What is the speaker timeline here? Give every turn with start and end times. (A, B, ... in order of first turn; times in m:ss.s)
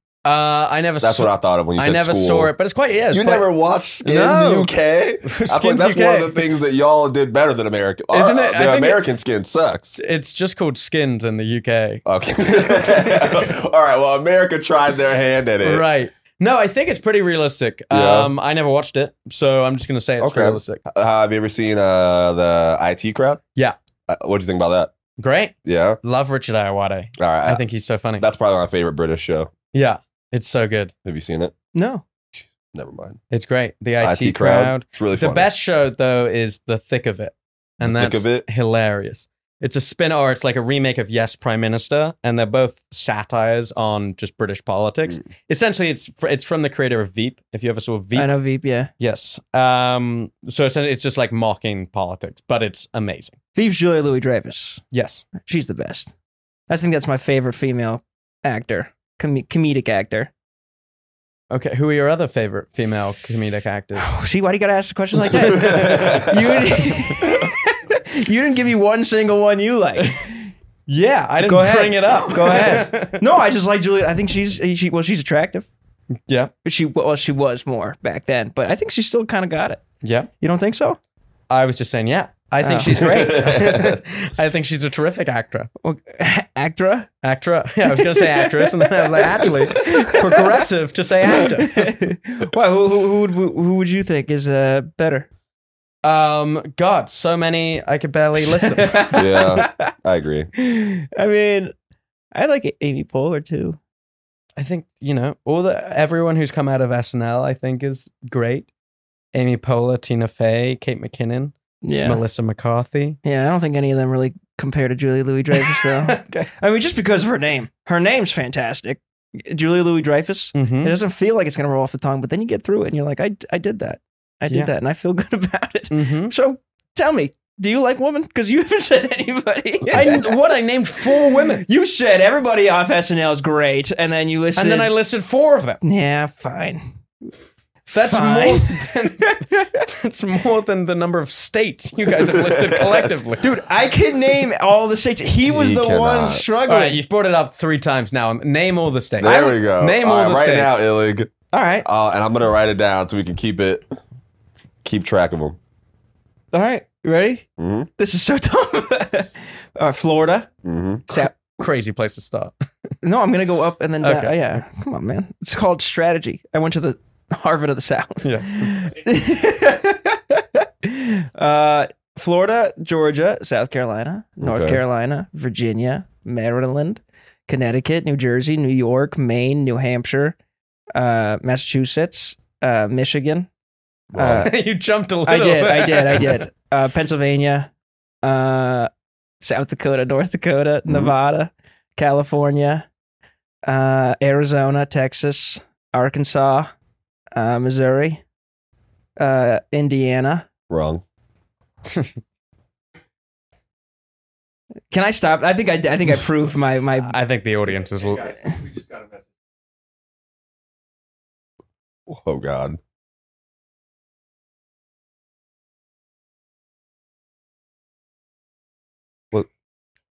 0:00.2-0:03.4 A
0:01.0-0:02.5 B
0:03.1-0:10.0 B
0:04.0-0:04.7 A
0:05.2-0:06.4 A
0:08.1-0:09.0 A
0:10.0-0:12.0 A
0:12.0-0:15.8 B
0:12.6-0:13.4 A
0:15.6-0:20.8 A
0:17.9-0:18.3 B
0:20.2-0:23.4 B
0:24.1-0:24.9 B
0:25.2-0:28.2 A
0:25.6-0:26.0 B
0:27.2-0:27.6 B
0:28.2-0:29.5 B
0:29.7-0:30.9 A
0:31.0-0:31.5 B
0:31.7-0:32.0 C
0:32.5-0:33.2 B
0:33.3-0:48.3 A
0:34.0-0:35.5 B
0:37.8-0:38.4 B
0:48.1-0:48.9 C
0:49.0-0:53.4 A
0:53.5-0:54.8 C
0:54.9-0:55.3 A
0:55.4-0:56.1 C
0:56.7-1:00.3 C
1:01.5-1:04.1 A
1:04.0-1:10.4 C
1:05.3-1:07.1 A
1:10.9-1:13.2 A
1:11.4-1:15.7 C
1:16.6-1:19.8 C
1:20.0-1:20.3 A
1:20.4-1:21.0 C
1:21.5-1:25.7 A
1:22.6-1:23.8 C
1:23.1-1:24.0 B
1:25.8-1:27.1 C
1:27.2-1:31.9 A
1:27.9-1:30.6 C
1:31.2-1:35.3 C
1:36.0-1:39.2 A
1:38.4-1:39.8 C
1:39.1-1:40.5 B
1:40.5-1:41.7 C
1:42.3-1:43.8 C
1:44.6-1:48.7 A
1:49.3-1:53.2 A
1:51.8-1:52.2 C
1:53.2-2:14.9 C
1:55.5-1:56.5 A
2:00.6-2:00.9 A
2:05.9-2:06.3 A
2:09.9-2:11.6 A
2:14.6-2:15.8 A
2:15.8-2:16.9 C
2:17.9-2:19.8 C
2:17.9-2:23.6 A
2:22.1-2:23.1 B
2:23.4-2:27.0 C
2:25.4-2:26.4 B
2:26.6-2:30.8 A
2:29.2-2:31.3 B
2:31.5-2:31.9 C
2:31.8-2:34.0 B
2:34.8-2:35.6 B
2:36.5-2:37.4 C
2:37.6-2:37.9 B
2:38.0-2:40.5 C
2:40.6-2:41.0 B
2:41.1-2:41.3 C
2:41.1-2:42.5 A
2:43.0-3:00.4 C
2:44.0-2:44.6 A
2:48.2-2:48.9 A
2:54.4-2:54.8 B
3:00.9-3:03.5 C
3:04.1-3:04.5 B
3:04.2-3:04.5 C
3:04.2-3:06.4 A
3:05.2-3:07.7 C
3:08.2-3:08.9 C
3:09.4-3:12.9 C
3:10.9-3:11.1 B
3:13.7-3:16.7 C
3:17.3-3:18.2 C
3:19.2-3:20.5 C
3:20.7-3:21.0 B
3:24.9-3:27.1 C
3:27.0-3:28.4 A
3:32.1-3:32.8 B